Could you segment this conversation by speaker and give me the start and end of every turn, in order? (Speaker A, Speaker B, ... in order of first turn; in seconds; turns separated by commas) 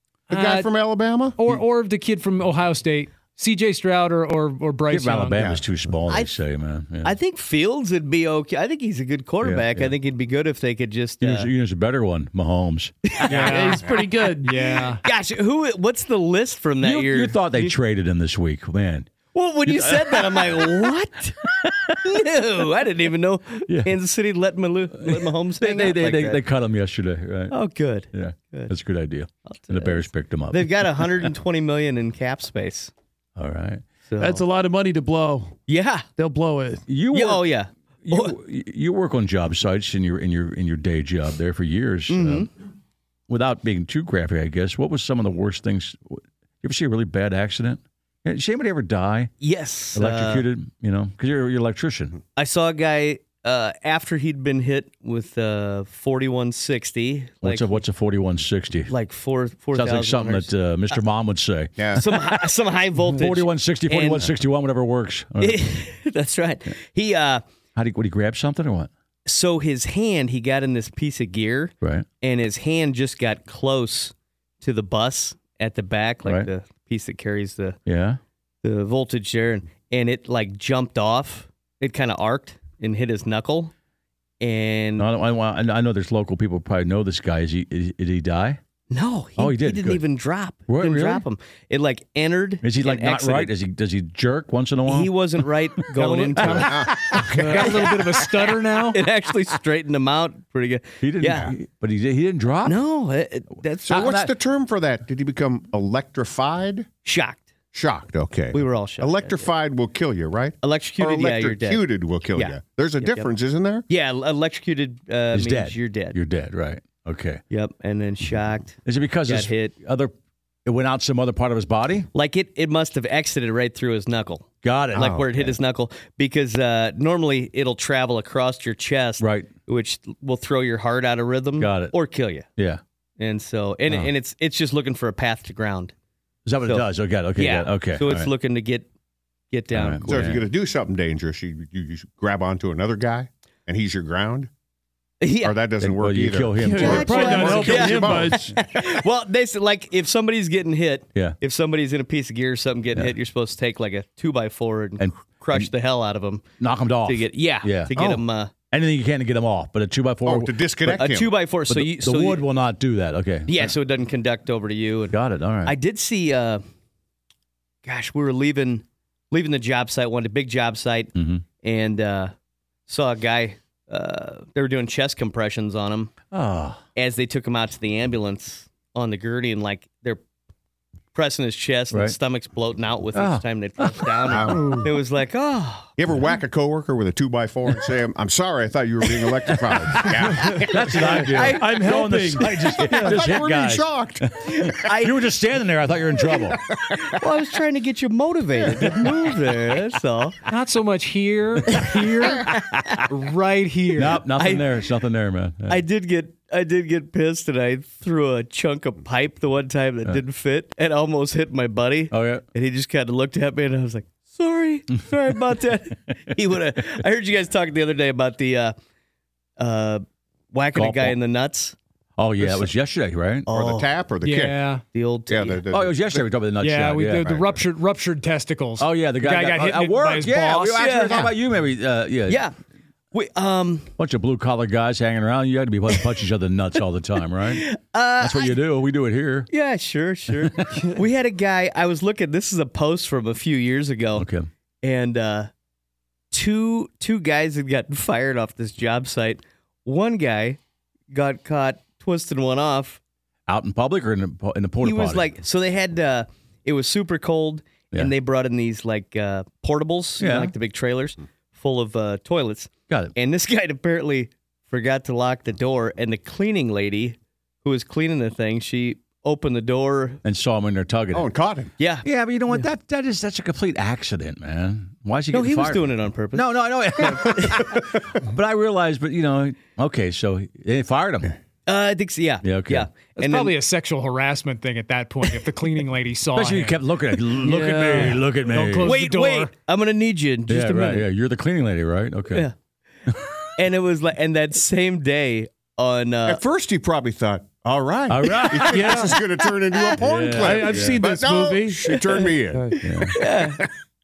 Speaker A: 0.3-0.7, Speaker B: 0.3-1.4, Speaker A: 1.4-5.5, Speaker C: 4.9-7.1, Speaker B: 5.4-5.7, Speaker D: 6.1-6.4, Speaker D: 7.0-11.5, Speaker C: 9.4-9.9, Speaker C: 11.2-12.9, Speaker D: 13.1-13.8, Speaker E: 13.3-14.6, Speaker B: 13.4-14.1, Speaker A: 14.4-15.0, Speaker D: 15.0-17.7, Speaker C: 16.8-20.9, Speaker D: 19.3-21.4, Speaker D: 21.9-26.4, Speaker C: 23.7-23.9, Speaker C: 25.0-27.6, Speaker D: 27.5-28.7, Speaker C: 28.1-31.3, Speaker D: 29.5-32.9, Speaker C: 33.4-33.8, Speaker D: 34.1-34.4, Speaker E: 34.2-35.6, Speaker D: 35.7-36.1, Speaker E: 36.2-36.8, Speaker C: 36.9-37.5, Speaker D: 37.1-38.4, Speaker C: 38.0-42.5, Speaker D: 42.1-42.5, Speaker C: 43.3-49.3, Speaker D: 49.4-50.4, Speaker C: 49.9-52.2, Speaker D: 52.4-57.8, Speaker C: 57.4-58.9, Speaker D: 58.9-61.0, Speaker C: 59.7-62.4, Speaker B: 61.8-62.0, Speaker D: 61.9-64.3, Speaker C: 63.1-65.7, Speaker D: 65.4-67.4, Speaker C: 67.8-68.9, Speaker D: 69.2-77.8, Speaker C: 77.8-78.2, Speaker D: 78.6-83.7, Speaker D: 84.4-85.1, Speaker C: 85.0-88.6, Speaker D: 88.9-93.5, Speaker C: 89.4-90.0, Speaker C: 90.7-91.2, Speaker C: 92.6-95.1, Speaker D: 94.9-97.8, Speaker A: 96.0-99.0, Speaker C: 96.4-97.7, Speaker B: 96.5-97.7, Speaker D: 98.9-101.5, Speaker C: 101.0-102.8, Speaker D: 102.7-104.2, Speaker B: 103.9-106.9, Speaker C: 103.9-104.3, Speaker D: 107.0-107.5, Speaker B: 107.7-113.8, Speaker D: 108.5-109.5, Speaker D: 110.6-113.3, Speaker D: 113.9-116.2, Speaker C: 115.3-117.4, Speaker D: 117.5-119.7, Speaker C: 118.8-120.1, Speaker C: 120.6-122.1, Speaker D: 122.1-132.4, Speaker C: 124.6-125.5, Speaker C: 129.2-129.5, Speaker C: 131.6-131.9, Speaker C: 132.6-132.8, Speaker D: 133.2-135.9, Speaker C: 136.4-138.3, Speaker D: 136.6-138.9, Speaker D: 139.5-140.2, Speaker C: 139.7-140.4, Speaker B: 140.1-144.5, Speaker D: 145.2-145.6, Speaker B: 145.4-149.0, Speaker C: 145.8-147.8, Speaker E: 146.6-148.5, Speaker D: 146.8-156.4, Speaker C: 155.0-155.7, Speaker C: 156.6-158.0, Speaker D: 157.1-158.5, Speaker B: 157.9-158.2, Speaker C: 158.7-160.7, Speaker B: 160.2-161.3, Speaker D: 160.9-162.4, Speaker C: 161.7-163.7, Speaker D: 163.5-166.6, Speaker C: 165.1-165.8, Speaker D: 167.8-172.3, Speaker C: 171.1-171.4, Speaker D: 172.9-176.1, Speaker C: 176.3-176.8, Speaker D: 176.9-180.2, Speaker D: 181.1-185.9, Speaker C: 183.1-184.1, Speaker B: 184.3-184.8, Speaker E: 184.6-184.8, Speaker B: 186.0-191.1, Speaker C: 189.7-196.6, Speaker E: 190.3-193.2, Speaker B: 192.4-194.2, Speaker D: 194.4-195.2, Speaker B: 196.3-197.0, Speaker D: 197.1-200.4, Speaker A: 200.5-202.5, Speaker A: 203.0-204.2, Speaker C: 203.9-205.8, Speaker D: 204.3-204.6, Speaker D: 205.7-218.8, Speaker C: 212.1-212.4, Speaker D: 219.6-221.8, Speaker C: 220.7-221.2, Speaker C: 222.2-223.5, Speaker D: 223.4-223.9, Speaker B: 223.5-224.6, Speaker A: 224.2-224.8, Speaker D: 224.9-225.6, Speaker B: 225.3-226.3, Speaker C: 225.7-227.3, Speaker A: 226.6-230.9, Speaker B: 227.2-227.6, Speaker C: 228.8-232.4, Speaker D: 230.8-231.3, Speaker D: 232.3-232.5, Speaker D: 233.1-233.9, Speaker C: 234.0-239.5, Speaker D: 237.4-238.6, Speaker D: 239.5-244.2, Speaker C: 244.2-244.5, Speaker D: 244.8-245.5, Speaker D: 246.3-250.6, Speaker D: 251.1-253.0, Speaker C: 253.5-255.3, Speaker D: 254.8-270.2, Speaker C: 260.2-260.5, Speaker C: 262.9-263.1, Speaker C: 270.2-271.3, Speaker B: 271.1-271.7, Speaker D: 271.8-272.6, Speaker C: 272.0-281.3, Speaker D: 275.3-277.7, Speaker D: 281.7-283.5, Speaker C: 282.4-282.9, Speaker A: 283.1-286.8, Speaker C: 286.3-289.0, Speaker E: 287.4-288.2, Speaker A: 288.4-289.5, Speaker D: 288.8-291.1, Speaker C: 290.5-292.5, Speaker D: 293.6-296.4, Speaker B: 296.2-303.7, Speaker C: 298.1-299.1, Speaker E: 298.7-299.1, Speaker C: 300.0-301.0, Speaker E: 300.4-302.0, Speaker D: 302.0-302.2, Speaker E: 302.5-302.8, Speaker D: 302.8-303.6, Speaker C: 302.8-303.1